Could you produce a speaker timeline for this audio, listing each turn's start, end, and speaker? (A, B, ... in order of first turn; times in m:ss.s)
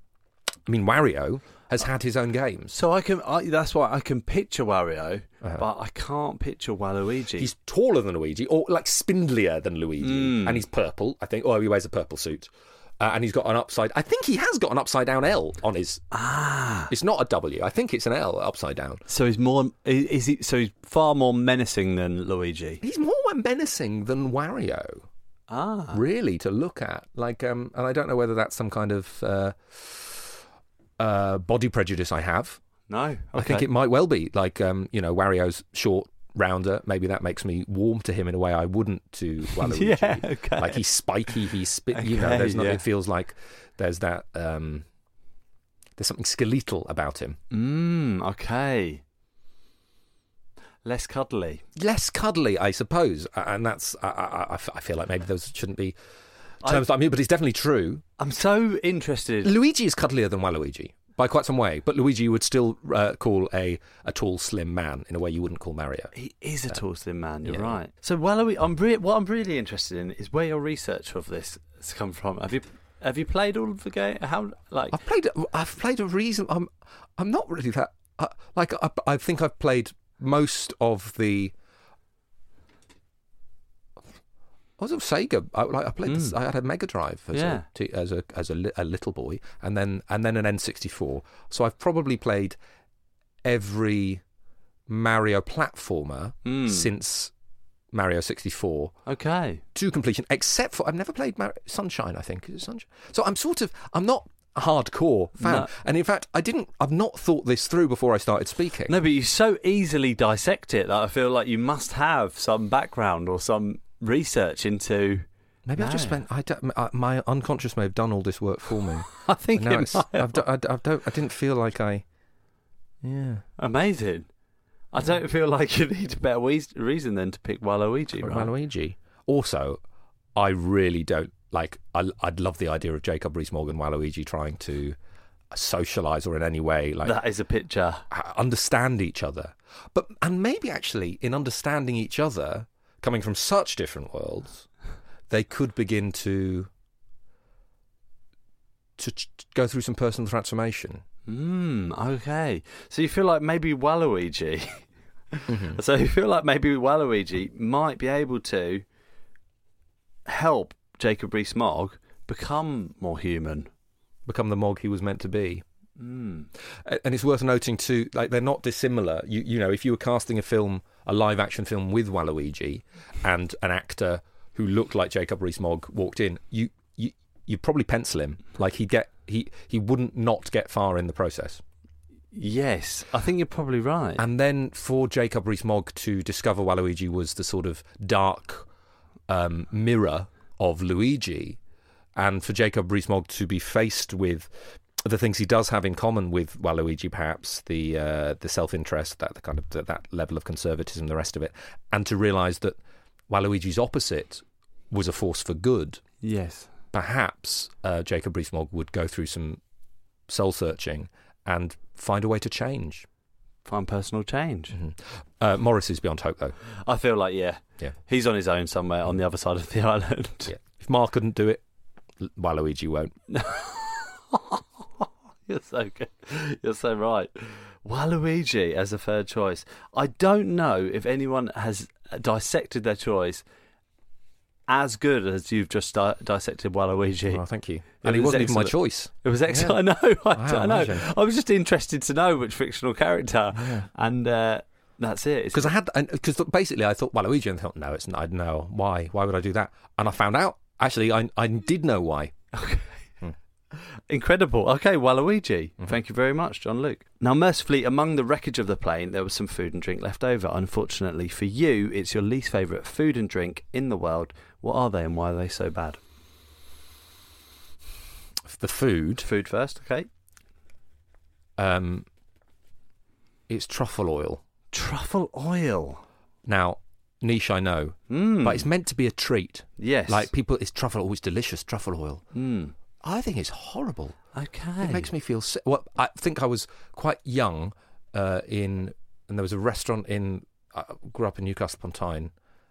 0:00.7-0:02.7 A
0:02.7-0:07.5 B
0:07.4-0:16.0 A
0:10.0-0:10.6 B
0:16.1-0:16.9 B
0:16.9-0:19.0 A
0:19.1-0:22.8 B
0:22.8-0:25.0 A
0:25.5-0:26.0 B
0:25.9-0:30.2 A
0:31.0-0:32.6 A
0:32.9-0:33.7 B
0:33.3-0:44.8 A
0:39.5-0:40.8 B
0:41.9-0:42.8 B
0:46.0-0:47.4 A
0:47.5-0:49.0 B
0:50.8-0:51.6 B
0:51.8-0:55.9 A
0:56.6-0:58.0 A
0:58.2-0:59.5 B
0:59.4-1:06.1 A
1:06.1-1:15.0 B
1:07.4-1:07.8 A
1:14.9-1:21.5 A
1:24.8-1:32.6 A
1:26.0-1:26.3 B
1:27.3-1:27.6 B
1:33.4-1:34.2 A
1:34.9-1:37.3 A
1:36.4-1:36.9 B
1:37.9-1:38.9 A
1:39.0-1:39.6 B
1:39.7-1:49.0 A
1:45.4-1:45.7 B
1:48.9-1:55.2 B
1:55.6-2:02.0 A
1:55.8-1:56.2 B
1:59.1-2:00.4 B
2:03.0-2:03.4 A
2:03.6-2:04.3 B
2:04.9-2:08.5 B
2:08.2-2:09.8 A
2:10.4-2:15.0 A
2:15.5-2:17.2 A
2:17.0-2:18.0 B
2:18.1-2:24.7 A
2:25.3-2:26.7 A
2:29.0-2:31.0 A
2:31.3-2:38.8 B
2:35.5-2:35.8 A
2:40.2-2:43.7 B
2:44.3-2:45.6 A
2:46.0-2:46.5 B
2:46.8-3:01.6 A
3:02.3-3:04.2 B
3:04.2-3:08.7 A
3:09.3-3:11.6 A
3:12.2-3:22.8 A
3:23.3-3:26.0 A
3:26.2-3:26.7 B
3:26.9-3:29.6 A
3:30.3-3:33.0 A
3:33.6-3:34.8 B
3:34.7-3:36.6 A
3:36.8-3:40.5 B
3:40.5-3:41.6 A
3:42.2-3:43.1 A
3:43.3-3:53.4 B
3:54.7-3:57.4 B
3:57.3-3:59.8 A
3:58.0-4:05.7 B
4:00.3-4:01.0 A
4:03.6-4:03.9 A
4:05.5-4:12.3 A
4:12.5-4:13.0 B
4:13.7-4:26.0 B
4:28.5-4:29.3 A
4:29.2-4:30.1 B
4:31.6-4:32.0 A
4:33.5-4:34.4 A
4:34.7-4:36.0 B
4:36.4-4:42.2 A
4:38.1-4:38.7 B
4:39.8-4:40.3 B
4:42.3-4:42.7 B
4:43.0-4:44.2 A
4:44.3-4:45.1 B
4:44.8-4:52.3 A